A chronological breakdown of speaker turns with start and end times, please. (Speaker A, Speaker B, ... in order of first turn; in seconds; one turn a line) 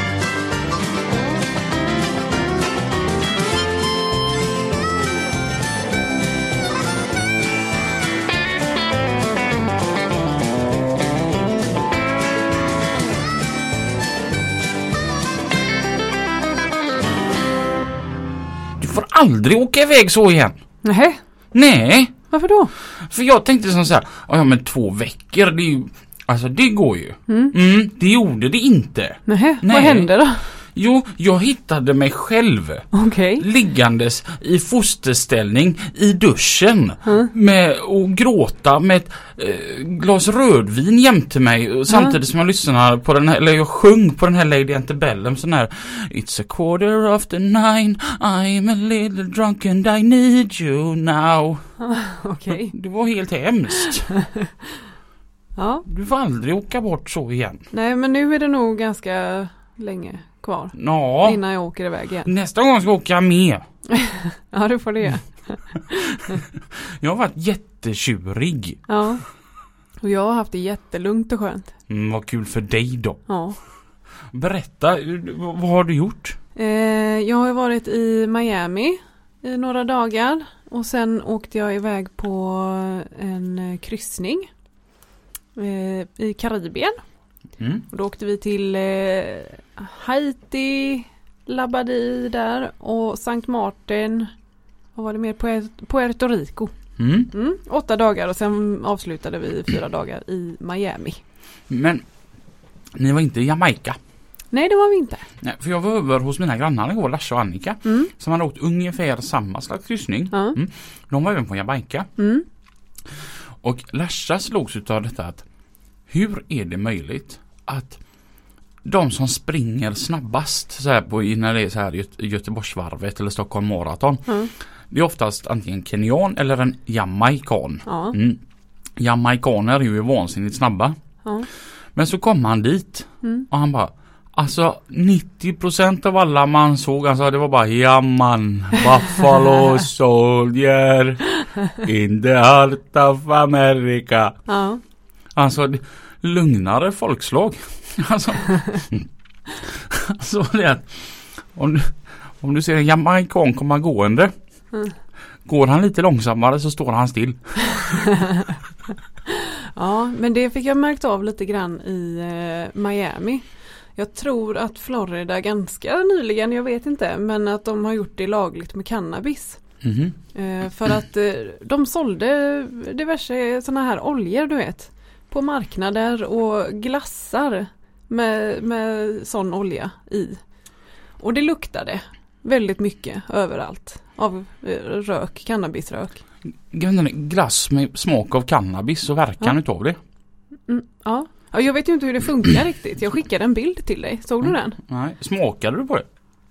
Speaker A: 18.8-20.6
Speaker B: 20.8-21.2
Speaker A: 21.5-22.2
Speaker B: 22.3-22.7
Speaker A: 22.9-32.9
Speaker B: 27.3-27.5
Speaker B: 29.3-30.5
Speaker B: 32.9-33.5
Speaker A: 33.4-51.6
Speaker B: 37.1-37.3
Speaker B: 41.9-42.2
Speaker B: 51.8-52.7
Speaker A: 52.5-54.1
Speaker B: 53.9-54.7
Speaker B: 55.6-55.9
Speaker A: 55.9-57.7
Speaker B: 57.7-62.3
Speaker A: 60.7-61.4
Speaker A: 62.2-63.6
Speaker B: 63.9-66.4
Speaker A: 66.0-68.8
Speaker B: 68.9-69.2
Speaker B: 70.0-71.7
Speaker A: 71.9-73.2
Speaker B: 73.3-73.6
Speaker A: 74.3-76.4
Speaker B: 76.6-84.5
Speaker B: 85.5-87.0
Speaker A: 87.6-87.8
Speaker B: 87.9-94.3
Speaker B: 95.0-96.7
Speaker A: 97.0-97.3
Speaker B: 97.3-101.2
Speaker A: 101.7-102.0
Speaker A: 103.0-104.0
Speaker B: 104.5-105.3
Speaker A: 105.4-112.1
Speaker B: 107.8-108.1
Speaker B: 110.3-110.6
Speaker B: 112.2-112.5
Speaker A: 113.6-115.4
Speaker A: 116.1-118.0
Speaker A: 118.8-124.3
Speaker A: 124.9-128.4
Speaker B: 127.9-128.2
Speaker A: 129.0-131.0
Speaker A: 131.9-144.4
Speaker B: 144.5-144.8
Speaker A: 145.3-154.3
Speaker A: 155.5-158.1
Speaker B: 157.8-158.6
Speaker B: 159.3-163.4
Speaker B: 164.0-169.6
Speaker A: 169.8-170.2
Speaker B: 170.3-180.4
Speaker B: 181.2-186.2
Speaker A: 186.7-190.0
Speaker B: 190.7-194.8
Speaker A: 194.4-196.1